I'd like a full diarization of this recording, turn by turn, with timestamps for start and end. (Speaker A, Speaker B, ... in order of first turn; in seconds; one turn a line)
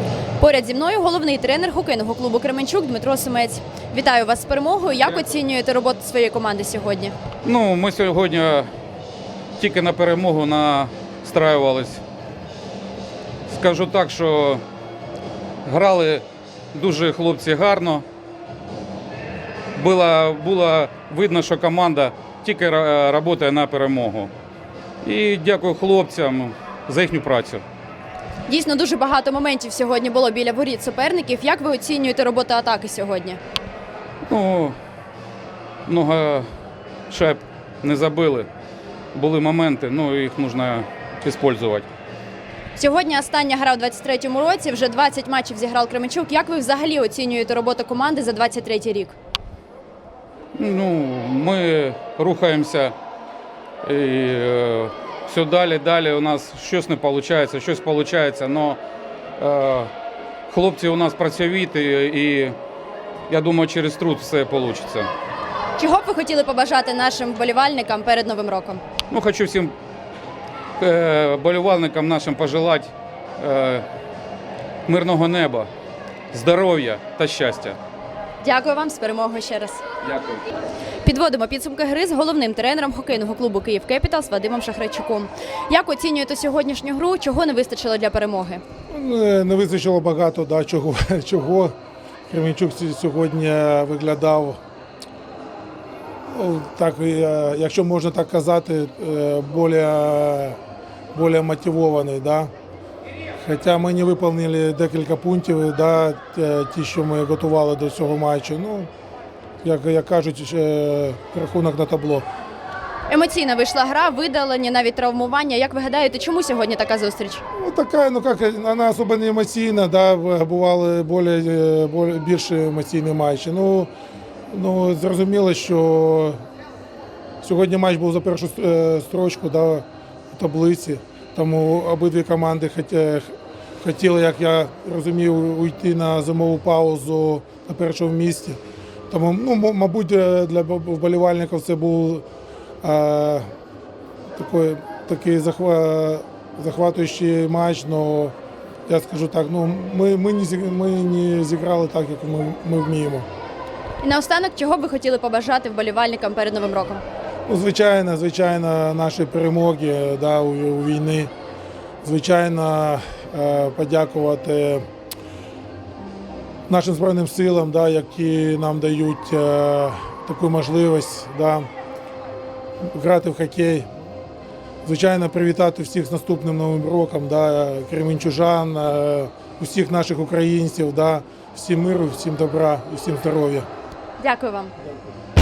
Speaker A: 0.4-7.1
Speaker B: 7.4-8.7
Speaker B: 9.6-12.0
Speaker B: 13.5-14.6
Speaker B: 15.6-18.0
Speaker B: 19.7-24.3
Speaker B: 25.0-27.6
Speaker A: 28.5-33.4
Speaker B: 34.3-34.8
Speaker B: 35.9-36.5
Speaker B: 37.1-38.5
Speaker B: 39.1-41.9
Speaker A: 42.8-49.1
Speaker B: 50.5-52.9
Speaker B: 53.8-58.8
Speaker B: 59.4-59.9
Speaker B: 60.5-62.5
Speaker B: 63.3-65.1
Speaker A: 65.8-68.8
Speaker B: 69.1-69.7
Speaker B: 70.8-73.8
Speaker B: 74.9-75.7
Speaker B: 76.3-77.8
Speaker A: 78.4-79.8
Speaker B: 80.0-80.4
Speaker A: 81.0-88.6
Speaker C: 88.9-91.7
Speaker C: 92.3-94.6
Speaker C: 96.3-100.6
Speaker C: 101.1-102.5
Speaker C: 103.4-108.9
Speaker C: 109.6-112.2
Speaker A: 113.1-117.4
Speaker C: 117.5-123.9
Speaker C: 124.5-126.4
Speaker C: 127.4-142.2
Speaker C: 142.8-143.5
Speaker C: 144.3-148.3
Speaker C: 148.9-153.3
Speaker A: 154.0-157.0
Speaker C: 157.5-161.3
Speaker C: 162.0-164.8
Speaker C: 166.7-171.7
Speaker C: 172.8-173.9
Speaker C: 174.8-183.7
Speaker A: 184.2-184.7